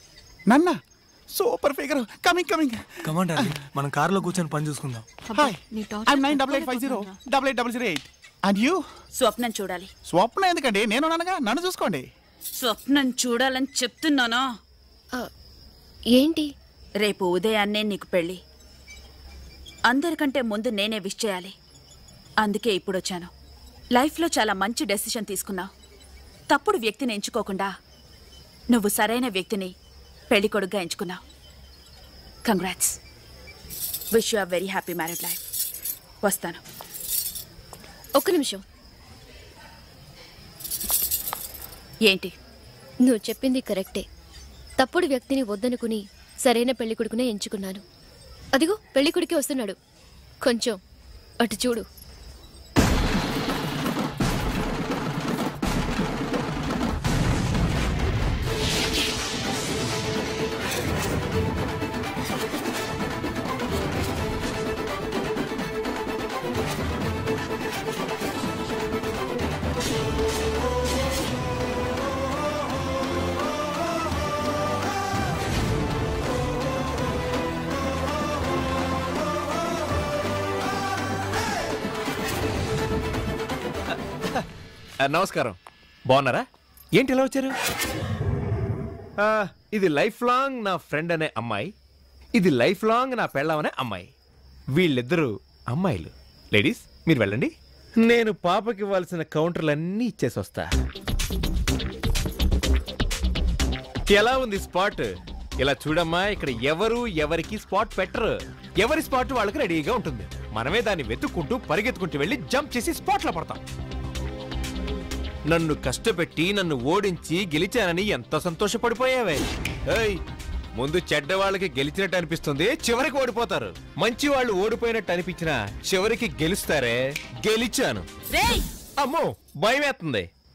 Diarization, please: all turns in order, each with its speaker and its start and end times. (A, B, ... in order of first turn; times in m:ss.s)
0:00.5-0:00.8 A
0:01.3-0:02.8 A
0:03.0-0:05.1 B
0:03.4-0:03.6 A
0:05.3-0:08.8 A
0:05.5-0:06.8 C
0:09.2-0:09.9 D
0:10.1-0:12.1 A
0:12.6-0:14.4 D
0:16.1-0:16.5 C
0:17.0-0:18.4 D
0:19.9-0:21.5 D
0:22.4-0:23.3 D
0:23.9-0:25.7 D
0:26.5-0:27.7 D
0:28.7-0:29.7 D
0:30.3-0:31.2 D
0:32.4-0:33.0 D
0:34.1-0:35.4 D
0:36.2-0:36.6 D
0:38.2-0:38.6 C
0:42.1-0:42.3 D
0:43.0-0:44.0 C
0:44.8-0:47.8 C
0:48.6-0:49.8 C
0:50.4-0:50.8 C
0:51.4-0:51.8 C
1:25.0-1:26.4 E
1:27.0-1:27.5 E
1:29.2-1:31.7 E
1:32.4-1:34.1 E
1:34.7-1:40.7 E
1:44.1-1:53.6 E
1:55.5-2:00.2 E
2:00.7-2:08.0 E
2:08.3-2:08.7 D
2:09.0-2:10.3 E